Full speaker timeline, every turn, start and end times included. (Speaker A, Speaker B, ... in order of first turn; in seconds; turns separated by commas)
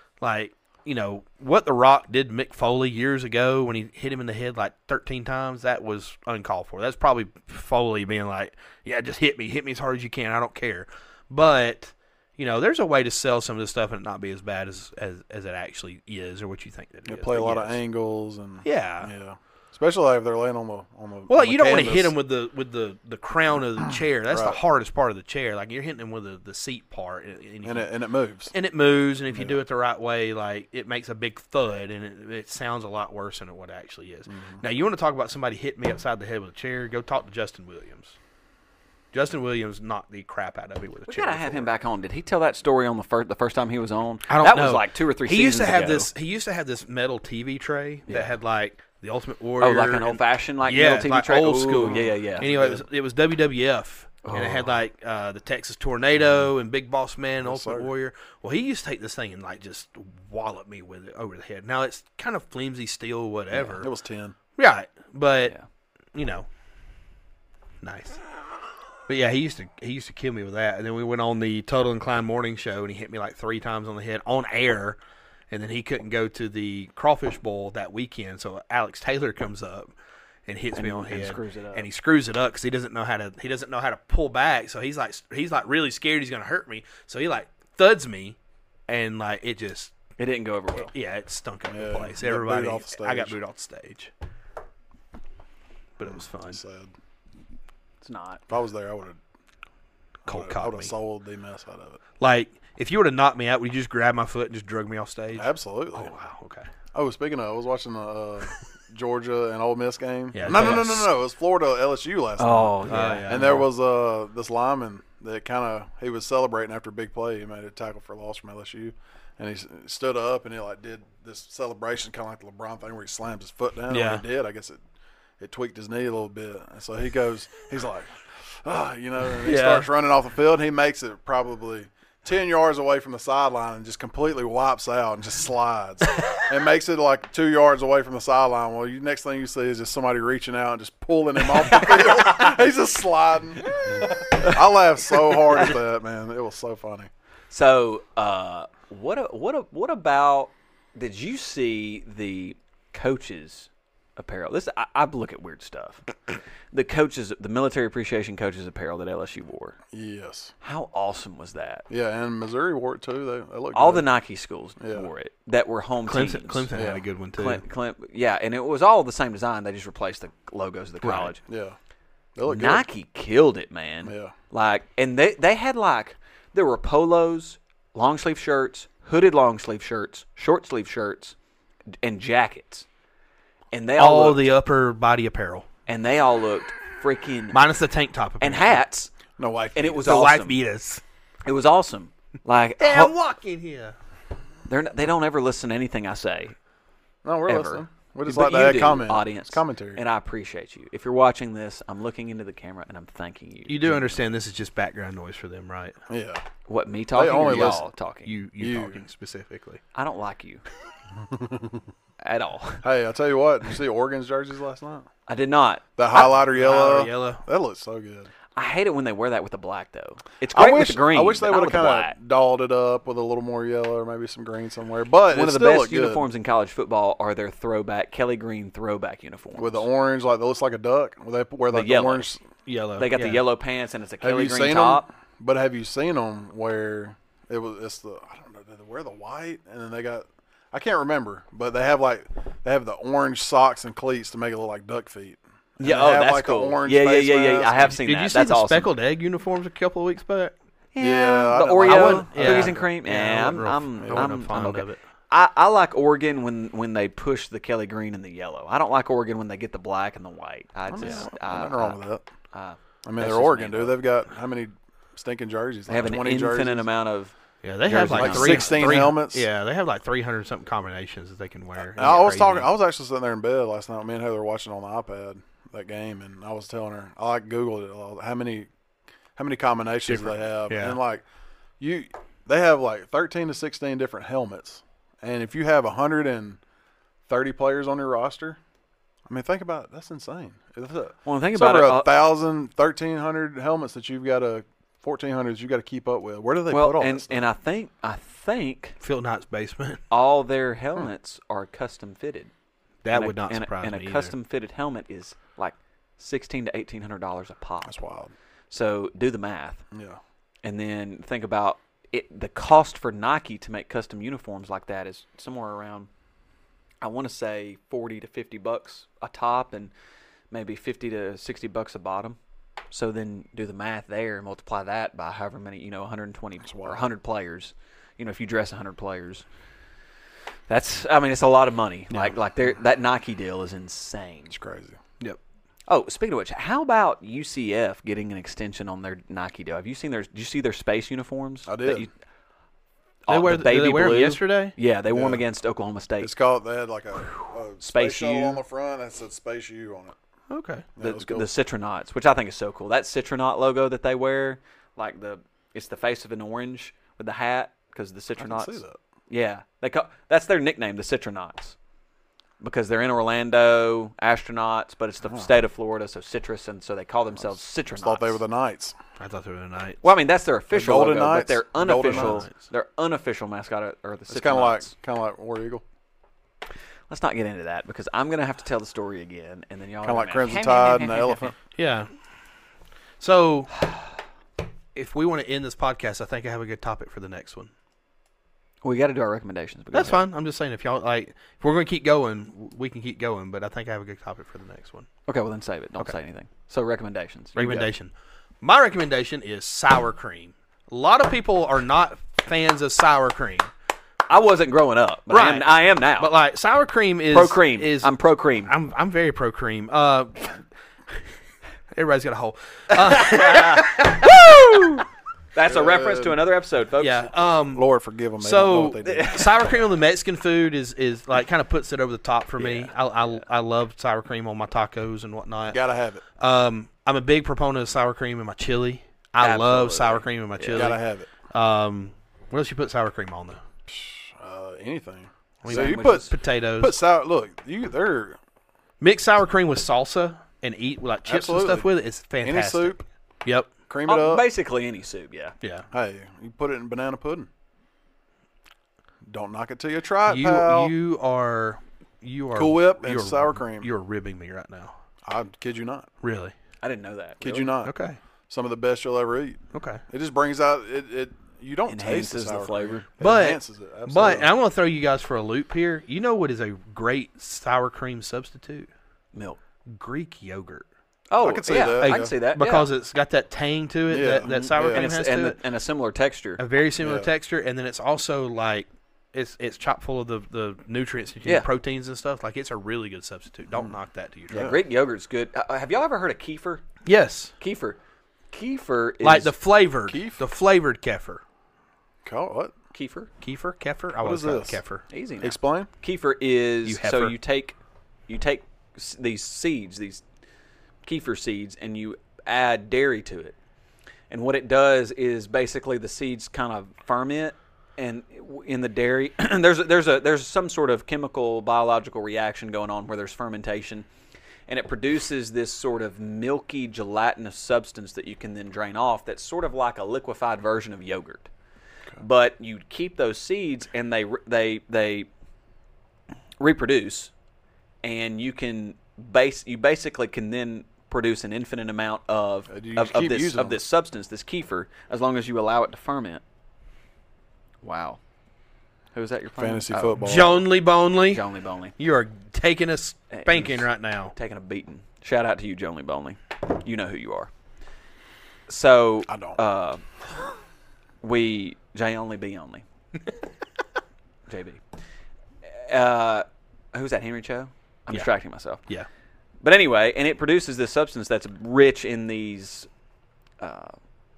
Speaker A: 0.2-17.8, Speaker B: 17.1-22.1, Speaker A: 18.6-19.1, Speaker A: 21.3-27.9, Speaker B: 24.3-24.6, Speaker B: 27.6-28.5, Speaker A: 28.5-38.1, Speaker B: 29.3-29.6, Speaker B: 34.3-34.6, Speaker A: 39.1-41.7, Speaker C: 41.1-46.1, Speaker A: 44.3-63.9, Speaker C: 48.1-48.3, Speaker C: 49.6-52.5, Speaker B: 52.4-52.9, Speaker C: 54.2-54.7, Speaker B: 57.4-57.9, Speaker B: 63.8-64.4, Speaker A: 64.6-65.5, Speaker A: 66.2-66.5, Speaker A: 67.8-68.2, Speaker A: 69.1-75.0, Speaker A: 75.5-79.9, Speaker A: 80.5-88.4, Speaker C: 80.8-81.9, Speaker A: 88.9-90.0, Speaker C: 90.2-90.9, Speaker A: 90.8-94.1, Speaker B: 91.7-93.4, Speaker A: 96.0-96.6, Speaker B: 96.0-96.9, Speaker C: 98.0-98.4, Speaker B: 98.5-99.2, Speaker A: 100.3-100.9, Speaker B: 100.3-102.0, Speaker A: 102.2-106.7, Speaker B: 105.3-106.1, Speaker B: 106.9-124.8, Speaker A: 110.3-111.1, Speaker C: 112.4-113.6, Speaker A: 112.9-113.6, Speaker A: 123.9-124.2, Speaker B: 125.4-147.1, Speaker A: 129.4-129.9, Speaker C: 143.7-144.5, Speaker C: 147.5-156.1, Speaker C: 156.7-159.8, Speaker B: 159.9-160.5, Speaker C: 160.6-161.9, Speaker B: 161.9-164.1, Speaker C: 163.7-166.7, Speaker B: 164.8-165.1, Speaker A: 166.1-167.6, Speaker B: 166.7-167.0, Speaker C: 167.4-171.4, Speaker A: 171.0-171.3, Speaker B: 171.5-171.8, Speaker B: 172.3-172.8, Speaker C: 172.5-181.3, Speaker B: 174.0-174.3, Speaker C: 182.0-182.9, Speaker C: 183.7-184.5, Speaker A: 184.0-185.7, Speaker C: 185.9-187.6, Speaker A: 187.5-188.8, Speaker C: 188.4-189.1, Speaker B: 189.4-190.2, Speaker C: 189.8-190.6, Speaker A: 190.0-191.0, Speaker C: 191.5-193.1, Speaker A: 192.8-194.0, Speaker C: 194.7-196.6, Speaker B: 197.2-200.0, Speaker C: 197.5-204.2, Speaker A: 203.7-206.0, Speaker B: 206.1-206.4, Speaker C: 206.7-208.3, Speaker B: 207.1-207.8, Speaker A: 208.2-209.8, Speaker B: 208.6-209.1, Speaker C: 209.9-210.6, Speaker B: 211.2-211.8, Speaker C: 212.2-212.8, Speaker B: 212.8-215.1, Speaker C: 215.3-215.8, Speaker B: 216.0-218.3, Speaker A: 216.1-217.4, Speaker C: 218.6-222.2, Speaker B: 220.5-226.2, Speaker C: 225.3-229.9, Speaker B: 229.6-232.4, Speaker C: 231.7-232.3, Speaker A: 232.7-233.4, Speaker C: 233.0-235.1, Speaker B: 234.2-248.0, Speaker C: 245.8-248.9, Speaker A: 247.9-250.5, Speaker C: 250.9-264.0, Speaker B: 251.0-252.8, Speaker A: 251.8-255.0, Speaker B: 254.0-254.7, Speaker B: 260.9-262.3, Speaker B: 263.1-266.9, Speaker C: 265.9-267.3, Speaker A: 267.6-272.7, Speaker C: 267.9-268.9, Speaker B: 267.9-269.5, Speaker B: 271.8-278.7, Speaker B: 279.4-281.2, Speaker A: 280.1-281.0, Speaker B: 281.8-286.6, Speaker B: 287.3-288.6, Speaker B: 289.3-297.4, Speaker C: 291.2-292.1, Speaker C: 296.7-299.0, Speaker A: 299.0-300.0, Speaker C: 300.1-302.5, Speaker A: 303.0-304.3, Speaker C: 303.1-308.0, Speaker B: 307.8-308.3, Speaker C: 308.7-309.9, Speaker B: 309.9-310.2, Speaker C: 310.6-316.1, Speaker C: 317.0-319.9, Speaker C: 320.5-322.4, Speaker C: 322.9-329.4, Speaker B: 326.7-327.1, Speaker C: 330.7-334.5, Speaker B: 334.5-335.0, Speaker C: 335.9-342.1, Speaker B: 341.7-342.1, Speaker C: 343.3-346.3, Speaker A: 343.3-344.8, Speaker B: 345.1-345.4, Speaker B: 346.2-350.1, Speaker C: 347.3-348.6, Speaker A: 350.5-350.9, Speaker B: 351.0-351.5, Speaker C: 351.0-361.8, Speaker B: 358.4-359.0, Speaker C: 362.6-368.4, Speaker B: 365.2-365.5, Speaker B: 367.9-369.0, Speaker A: 369.2-370.0, Speaker C: 370.0-374.9, Speaker B: 370.7-372.5, Speaker A: 371.9-372.5, Speaker B: 374.3-375.8, Speaker C: 377.1-380.7, Speaker B: 380.0-381.6, Speaker A: 381.8-382.1, Speaker A: 383.2-383.9, Speaker A: 384.9-387.7, Speaker C: 388.8-390.2, Speaker A: 389.9-395.1, Speaker C: 395.3-397.9, Speaker A: 397.6-403.7, Speaker C: 404.3-406.3, Speaker A: 405.3-408.1, Speaker C: 407.3-408.7, Speaker A: 408.7-410.6, Speaker A: 411.9-414.3, Speaker C: 412.9-417.3, Speaker B: 415.6-416.4, Speaker A: 417.0-417.9, Speaker B: 417.7-419.6, Speaker A: 418.4-425.8, Speaker C: 419.0-419.5, Speaker C: 422.6-422.9, Speaker B: 425.7-426.2, Speaker A: 426.4-433.6, Speaker C: 429.4-430.9, Speaker B: 430.6-431.3, Speaker B: 433.9-438.4, Speaker A: 435.6-437.0, Speaker C: 435.7-436.3, Speaker A: 439.0-443.7, Speaker B: 441.3-441.9, Speaker B: 442.4-443.0, Speaker B: 443.9-444.5, Speaker C: 444.1-445.6, Speaker B: 445.9-447.5, Speaker B: 449.3-450.9, Speaker A: 450.3-454.9, Speaker B: 452.5-453.9, Speaker B: 455.2-456.1, Speaker A: 456.2-456.5, Speaker C: 456.8-457.7, Speaker B: 457.4-457.9, Speaker A: 457.8-458.2, Speaker B: 458.5-464.5, Speaker A: 459.7-460.0, Speaker C: 461.9-463.1, Speaker A: 463.2-468.9, Speaker C: 469.3-469.6, Speaker A: 469.9-470.9, Speaker C: 471.3-472.9, Speaker B: 471.4-472.3, Speaker A: 472.0-475.6, Speaker B: 474.1-475.1, Speaker C: 474.8-476.6, Speaker A: 476.6-484.7, Speaker B: 477.0-477.3, Speaker B: 484.5-484.8, Speaker C: 484.5-486.9, Speaker A: 487.1-487.5, Speaker C: 487.6-488.0, Speaker C: 488.5-489.5, Speaker A: 489.2-491.4, Speaker B: 490.1-490.4, Speaker B: 492.2-492.7, Speaker C: 492.9-493.3, Speaker A: 493.4-495.1, Speaker B: 494.2-494.8, Speaker C: 495.1-497.8, Speaker B: 495.4-495.9, Speaker A: 496.9-497.4, Speaker C: 498.3-500.2, Speaker C: 501.0-503.6, Speaker C: 504.3-514.1, Speaker C: 514.7-521.5, Speaker C: 522.2-525.3, Speaker C: 526.6-527.3, Speaker C: 528.0-536.4, Speaker B: 532.7-533.8, Speaker C: 537.8-538.2, Speaker C: 539.1-540.4, Speaker B: 539.6-540.6, Speaker A: 540.2-541.5, Speaker C: 541.3-542.0, Speaker A: 542.0-544.4, Speaker C: 543.3-547.5, Speaker C: 548.7-550.0, Speaker B: 549.3-549.6, Speaker C: 551.2-552.8, Speaker C: 554.5-554.8, Speaker C: 555.6-558.8, Speaker C: 559.6-562.9, Speaker C: 563.6-564.0